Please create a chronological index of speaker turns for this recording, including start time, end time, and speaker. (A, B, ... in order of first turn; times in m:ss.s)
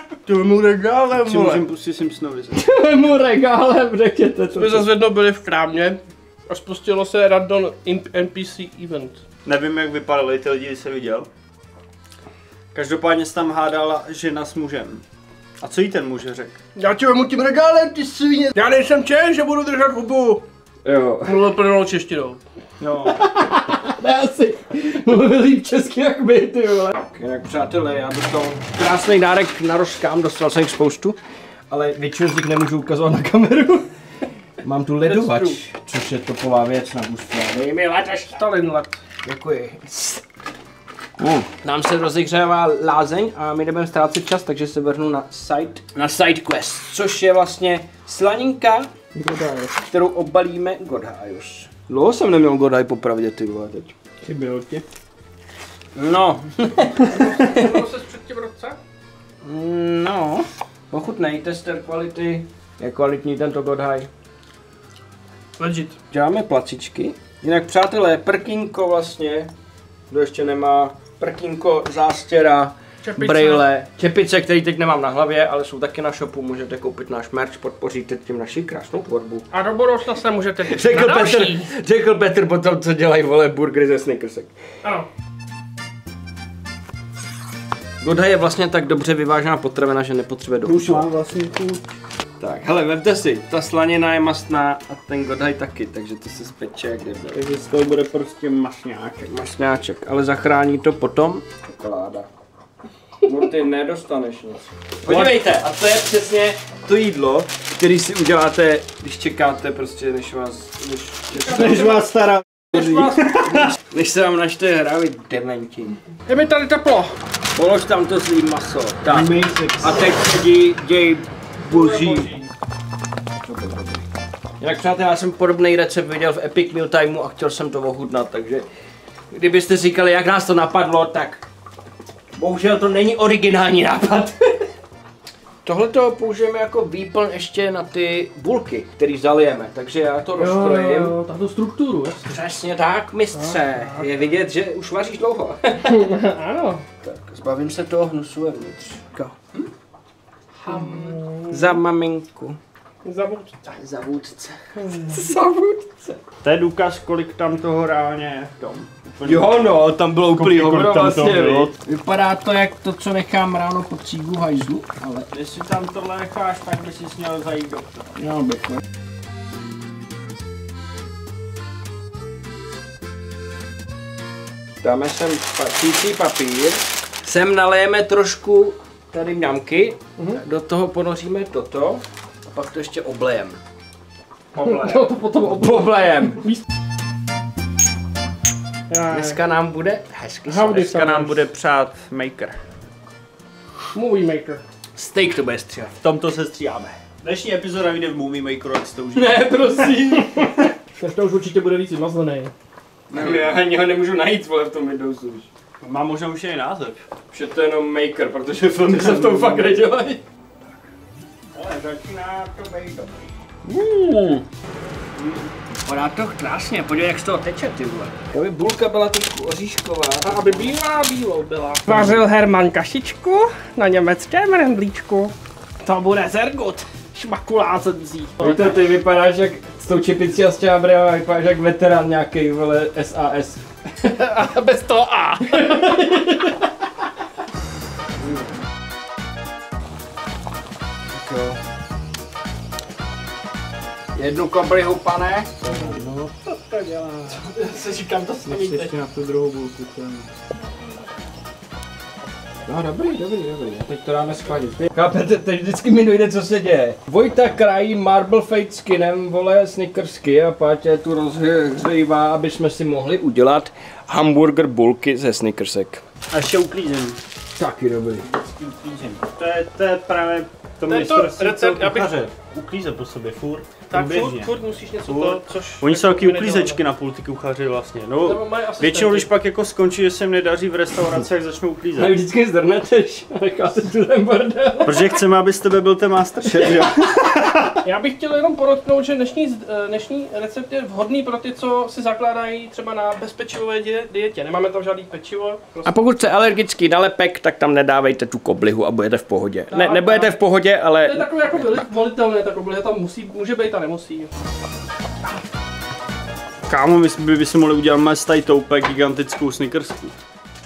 0:00.2-0:02.6 A
0:01.3-0:01.6 B
0:02.6-0:04.9 B
0:04.6-0:09.2 C
0:09.4-0:11.3 A
0:12.7-0:15.0 A
0:15.6-0:16.6 A
0:16.8-0:20.4 C
0:20.8-0:21.5 B
0:21.2-0:22.4 C
0:22.8-0:23.2 A
0:23.2-0:31.2 B
0:31.7-0:33.9 B
0:34.6-0:38.4 B
0:35.0-0:35.6 C
0:38.2-0:39.0 C
0:39.2-0:40.2 B
0:41.5-0:48.9 B
0:49.2-0:49.7 A
0:49.7-0:53.9 B
0:54.2-0:54.8 A
0:56.0-0:57.7 B
0:57.1-0:58.8 C
0:59.4-1:04.1 B
1:05.6-1:06.0 C
1:06.1-1:09.5 B
1:10.1-1:19.5 B
1:13.0-1:13.6 C
1:19.5-1:21.7 C
1:20.6-1:24.5 B
1:28.0-1:31.1 B
1:30.6-1:31.9 A
1:32.4-1:37.4 B
1:37.3-1:39.3 A
1:39.3-1:42.3 B
1:43.2-1:52.0 B
1:45.1-1:45.4 A
1:51.4-1:53.7 A
1:52.7-1:56.0 B
1:56.3-1:57.2 C
1:57.6-2:02.3 B
1:59.1-2:00.1 A
2:01.7-2:02.5 C
2:03.4-2:04.0 B
2:04.6-2:08.7 B
2:09.3-2:11.4 B
2:12.4-2:14.6 B
2:15.6-2:21.2 B
2:20.4-2:22.3 C
2:22.3-2:26.1 B
2:23.3-2:24.1 C
2:25.9-2:26.8 C
2:27.0-2:29.3 B
2:30.7-2:31.8 C
2:30.7-2:32.6 B
2:33.0-2:33.8 C
2:33.8-2:36.2 B
2:34.8-2:35.2 C
2:36.4-2:41.8 A
2:39.2-2:45.3 B
2:45.3-2:48.1 A
2:48.2-2:48.8 B
2:54.8-3:03.6 B
3:04.5-3:06.5 B
3:04.6-3:05.9 C
3:08.9-3:09.4 C
3:09.1-3:10.9 B
3:10.5-3:11.4 C
3:10.8-3:12.6 A
3:13.9-3:14.6 C
3:15.0-3:15.9 B
3:16.0-3:19.9 A
3:19.2-3:20.6 B
3:21.0-3:22.5 C
3:23.1-3:23.6 A
3:23.1-3:25.5 B
3:25.8-3:27.0 A
3:27.3-3:30.2 B
3:28.9-3:29.7 A
3:31.5-3:33.1 A
3:35.2-3:35.5 A
3:35.9-3:40.8 B
3:40.2-3:48.7 C
3:41.9-3:42.2 B
3:48.4-3:53.6 B
3:54.0-3:56.6 C
4:01.1-4:01.6 B
4:04.2-4:06.3 B
4:05.7-4:07.4 A
4:07.3-4:08.9 C
4:08.4-4:09.0 B
4:08.7-4:10.2 A
4:12.7-4:26.0 B
4:26.3-4:27.2 A
4:27.6-4:28.3 B
4:28.2-4:34.5 A
4:30.9-4:32.2 C
4:33.9-4:36.8 C
4:35.0-4:42.2 A
4:38.2-4:39.3 C
4:42.0-4:45.0 B
4:44.8-4:47.8 A
4:46.5-4:46.9 B
4:47.8-4:55.9 C
4:55.8-5:01.7 B
4:59.7-5:00.4 C
5:01.0-5:04.3 C
5:06.7-5:10.1 A